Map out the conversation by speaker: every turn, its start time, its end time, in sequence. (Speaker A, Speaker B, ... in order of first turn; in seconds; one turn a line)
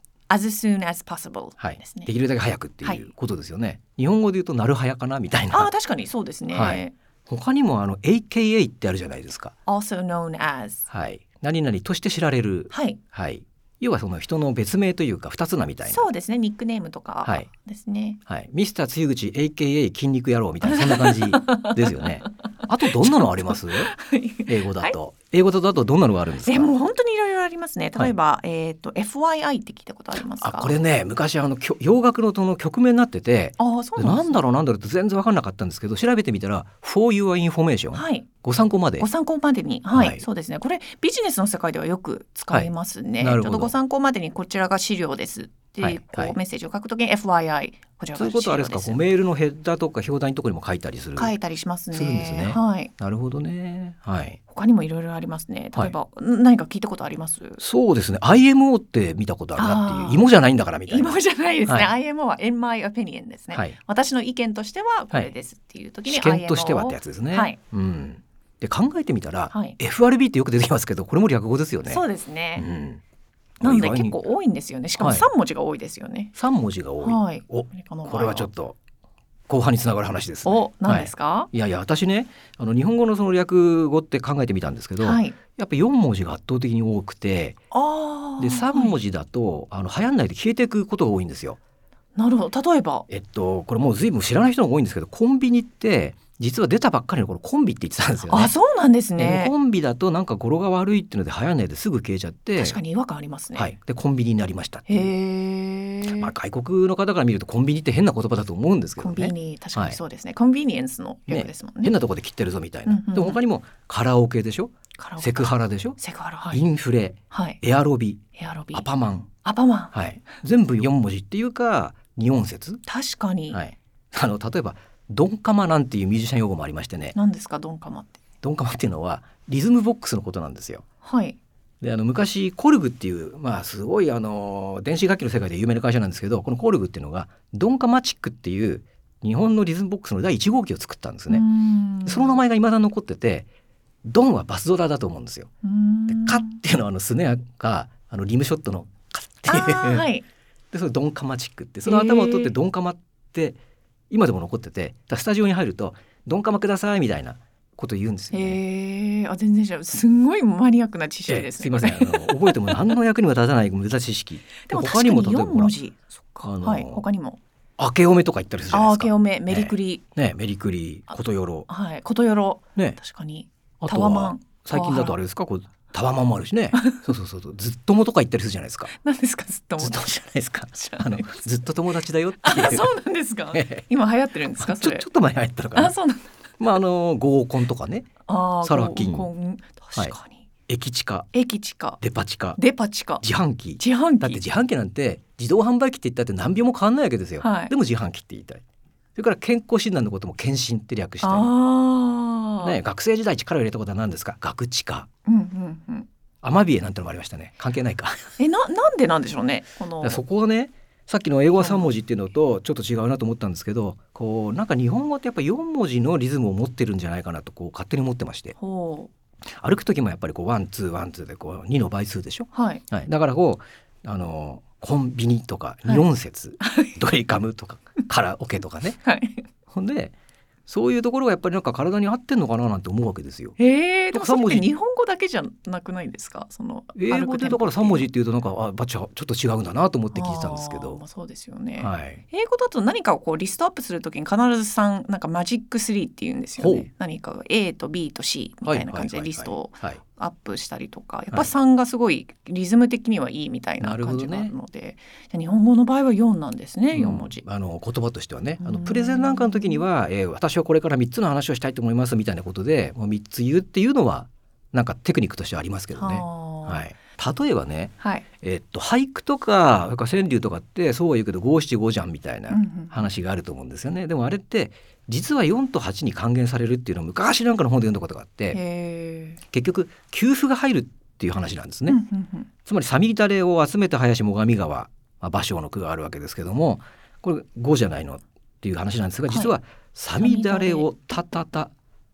Speaker A: 0.3-2.1
Speaker B: 1.6-5.7
Speaker A: 5.5-6.9
Speaker B: 6.5-9.5
Speaker A: 9.7-10.8
Speaker B: 10.9-16.1
Speaker A: 12.7-13.0
Speaker A: 15.8-18.2
Speaker B: 18.3-26.7
Speaker A: 20.6-22.1
Speaker A: 23.2-24.9
Speaker A: 26.4-30.8
Speaker B: 30.4-39.1
Speaker A: 33.6-34.4
Speaker A: 37.9-38.2
Speaker A: 39.0-49.0
Speaker B: 39.9-40.2
Speaker B: 42.5-43.7
Speaker B: 45.8-46.4
Speaker B: 48.2-51.3
Speaker A: 51.1-52.9
Speaker B: 51.9-54.4
Speaker A: 54.5-57.6
Speaker B: 57.6-61.9
Speaker A: 59.6-60.2
Speaker A: 60.9-67.6
Speaker B: 66.0-72.0
Speaker A: 69.5-69.8
Speaker A: 71.9-72.7
Speaker B: 72.5-73.0
Speaker B: 73.6-74.2
Speaker A: 73.6-76.3
Speaker B: 75.0-75.3
Speaker B: 76.3-78.8
Speaker A: 77.0-78.5
Speaker B: 79.5-87.6
Speaker A: 80.4-81.5
Speaker A: 85.0-85.4
Speaker A: 87.7-89.0
Speaker B: 88.4-91.6
Speaker A: 92.2-93.0
Speaker B: 93.1-98.5
Speaker A: 98.2-99.5
Speaker B: 99.2-102.8
Speaker A: 102.6-103.7
Speaker B: 103.5-105.1
Speaker A: 104.9-106.3
Speaker B: 106.0-110.0
Speaker A: 109.0-111.9
Speaker B: 111.3-116.0
Speaker A: 112.8-113.4
Speaker A: 115.0-116.6
Speaker B: 116.5-119.3
Speaker A: 117.3-117.6
Speaker A: 118.4-118.8
Speaker A: 119.4-119.9
Speaker B: 119.9-122.8
Speaker A: 122.8-123.6
Speaker B: 123.5-127.2
Speaker A: 127.1-128.2
Speaker B: 128.4-130.8
Speaker A: 131.0-131.4
Speaker B: 131.8-141.4
Speaker A: 141.3-142.3
Speaker B: 142.1-143.5
Speaker B: 144.0-145.5
Speaker A: 145.6-146.6
Speaker B: 146.1-150.0
Speaker A: 149.5-150.2
Speaker B: 150.7-153.6
Speaker A: 151.8-152.5
Speaker B: 154.1-158.6
Speaker A: 158.3-162.9
Speaker B: 161.3-165.7
Speaker A: 164.6-167.4
Speaker B: 166.4-167.0
Speaker B: 167.8-171.7
Speaker A: 168.7-170.0
Speaker A: 171.7-175.2
Speaker B: 173.8-178.9
Speaker A: 176.7-177.1
Speaker A: 178.9-180.1
Speaker B: 179.8-182.9
Speaker A: 180.7-181.3
Speaker A: 182.4-185.0
Speaker B: 183.5-183.9
Speaker B: 184.6-185.9
Speaker A: 185.7-186.3
Speaker B: 186.6-188.1
Speaker A: 188.3-190.5
Speaker B: 188.6-189.3
Speaker B: 190.7-191.3
Speaker A: 191.3-192.0
Speaker B: 192.0-192.6
Speaker A: 192.6-193.2
Speaker B: 193.2-198.6
Speaker A: 193.8-194.4
Speaker A: 197.4-197.7
Speaker B: 199.2-201.5
Speaker A: 201.2-202.8
Speaker B: 202.6-205.1
Speaker A: 205.2-206.1
Speaker B: 206.4-208.3
Speaker A: 208.4-210.2
Speaker B: 210.0-218.5
Speaker A: 211.6-211.9
Speaker A: 218.6-219.1
Speaker B: 219.6-229.0
Speaker A: 222.5-222.8
Speaker A: 226.6-226.9
Speaker A: 229.0-229.4
Speaker B: 229.7-230.1
Speaker B: 230.7-233.6
Speaker A: 233.6-238.1
Speaker B: 234.1-234.7
Speaker B: 236.9-241.0
Speaker A: 240.1-257.4
Speaker B: 241.8-242.2
Speaker B: 246.6-246.9
Speaker B: 248.7-250.0
Speaker B: 253.8-254.5
Speaker B: 256.9-278.6
Speaker A: 258.6-259.8
Speaker A: 265.9-266.8
Speaker A: 272.5-273.1
Speaker A: 278.5-279.4
Speaker B: 279.5-282.0
Speaker A: 281.9-282.5
Speaker B: 282.6-291.7
Speaker A: 290.2-290.9